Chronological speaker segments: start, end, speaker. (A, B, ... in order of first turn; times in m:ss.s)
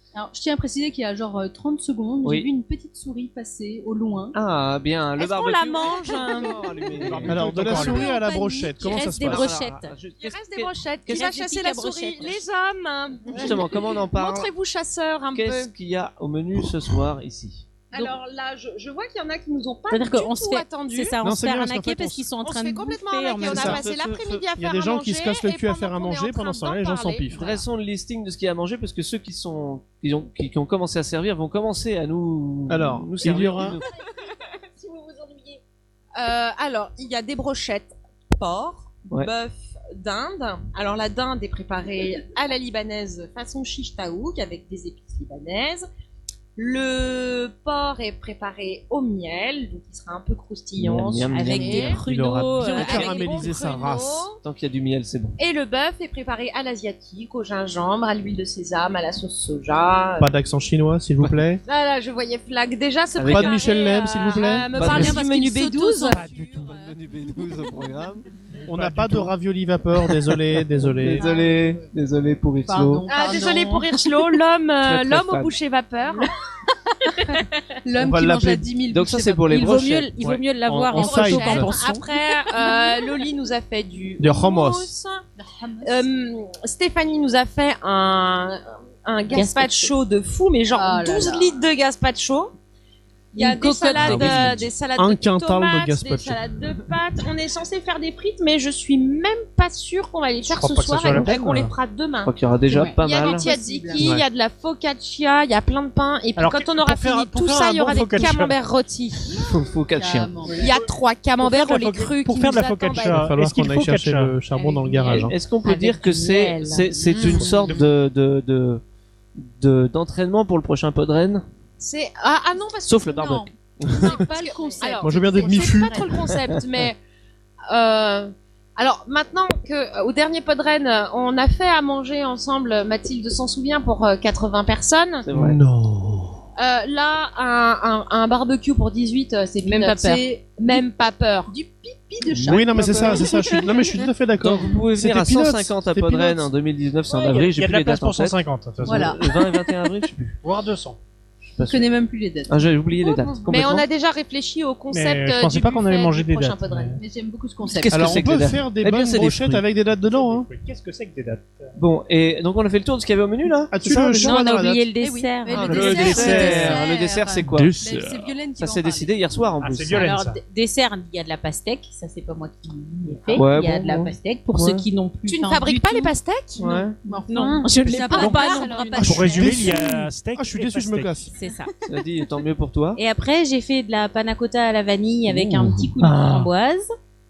0:00.1-0:04.3 A
0:02.2-0:02.5 B
0:04.3-0:07.9 B
0:05.2-0:06.6 C
0:05.5-0:06.8 D
0:07.0-0:08.1 E
0:07.2-0:09.5 F
0:07.7-0:09.9 C
0:09.2-0:11.3 B
0:10.2-0:15.7 D
0:11.1-0:12.4 C
0:13.3-0:14.5 B
0:15.3-0:17.7 B
0:17.9-0:21.2 D
0:19.9-0:23.8 C
0:21.2-0:22.2 F
0:22.4-0:27.6 D
0:23.4-0:23.8 F
0:23.4-0:24.4 B
0:24.6-0:27.5 F
0:27.3-0:33.8 B
0:32.7-0:33.8 F
0:33.6-0:35.6 D
0:36.1-0:45.9 D
0:46.6-0:52.0 D
0:50.8-0:52.0 B
0:51.3-0:53.5 C
0:52.0-0:54.3 F
0:52.6-0:54.4 D
0:54.4-0:55.4 B
0:55.4-1:00.3 D
1:00.2-1:01.6 F
1:01.6-1:06.7 D
1:03.2-1:03.6 B
1:03.2-1:04.8 F
1:04.7-1:05.3 B
1:04.8-1:06.2 A
1:06.1-1:06.7 E
1:06.3-1:08.2 B
1:08.6-1:09.3 E
1:08.7-1:11.2 F
1:10.7-1:13.1 B
1:11.1-1:11.8 A
1:12.6-1:14.1 A
1:13.1-1:16.3 D
1:14.8-1:15.5 B
1:17.8-1:19.8 A
1:18.0-1:18.6 F
1:18.9-1:20.1 B
1:19.5-1:22.1 C
1:20.2-1:21.7 F
1:20.9-1:25.2 D
1:22.5-1:22.8 A
1:24.2-1:24.9 F
1:25.4-1:26.1 A
1:25.8-1:32.5 D
1:29.3-1:29.9 C
1:30.7-1:31.6 A
1:33.3-1:42.3 D
1:33.4-1:34.6 C
1:33.9-1:36.5 F
1:34.0-1:34.6 B
1:40.5-1:41.7 E
1:41.0-1:41.3 F
1:42.2-1:43.5 B
1:42.7-1:44.1 A
1:43.0-1:49.4 D
1:44.0-1:44.2 F
1:46.4-1:48.5 E
1:49.4-1:50.4 B
1:49.9-1:50.8 A
1:50.6-1:53.2 D
1:51.4-1:54.4 E
1:53.0-1:55.4 F
1:54.5-1:55.3 A
1:55.1-1:58.8 B
1:55.6-1:57.7 C
1:57.2-1:57.5 D
1:57.4-1:57.8 E
1:59.3-2:01.4 B
2:01.8-2:07.0 D
2:02.8-2:04.2 B
2:03.2-2:06.2 A
2:05.0-2:06.1 F
2:06.5-2:06.9 B
2:07.7-2:15.2 D
2:15.2-2:15.6 B
2:15.3-2:16.4 F
2:16.6-2:21.5 D
2:19.6-2:20.8 A
2:21.5-2:23.7 A
2:22.2-2:23.4 B
2:22.5-2:26.5 F
2:24.4-2:30.4 B
2:27.2-2:29.2 E
2:28.8-2:29.5 A
2:30.4-2:31.0 E
2:31.5-2:31.9 B
2:31.6-2:32.7 A
2:32.5-2:33.8 B
2:33.0-2:37.0 D
2:34.9-2:37.0 E
2:37.0-2:38.2 A
2:37.6-2:39.6 B
2:37.9-2:40.5 F
2:40.0-2:41.7 E
2:41.7-2:44.2 B
2:43.7-2:44.8 F
2:44.1-2:46.4 C
2:45.0-2:49.2 A
2:45.5-2:47.7 B
2:45.7-2:46.8 E
2:46.1-2:46.5 F
2:47.6-2:48.3 E
2:48.6-2:50.1 B
2:49.6-2:50.4 E
2:49.9-2:56.1 C
2:53.3-2:54.9 B
2:55.2-2:56.9 D
2:56.6-2:57.0 B
2:57.0-2:59.3 A
2:57.3-2:59.6 C
2:57.4-2:59.5 D
2:57.9-3:01.3 E
2:59.0-3:01.3 F
3:01.3-3:01.7 C
3:01.8-3:03.0 B
3:02.9-3:06.9 C
3:05.3-3:06.5 B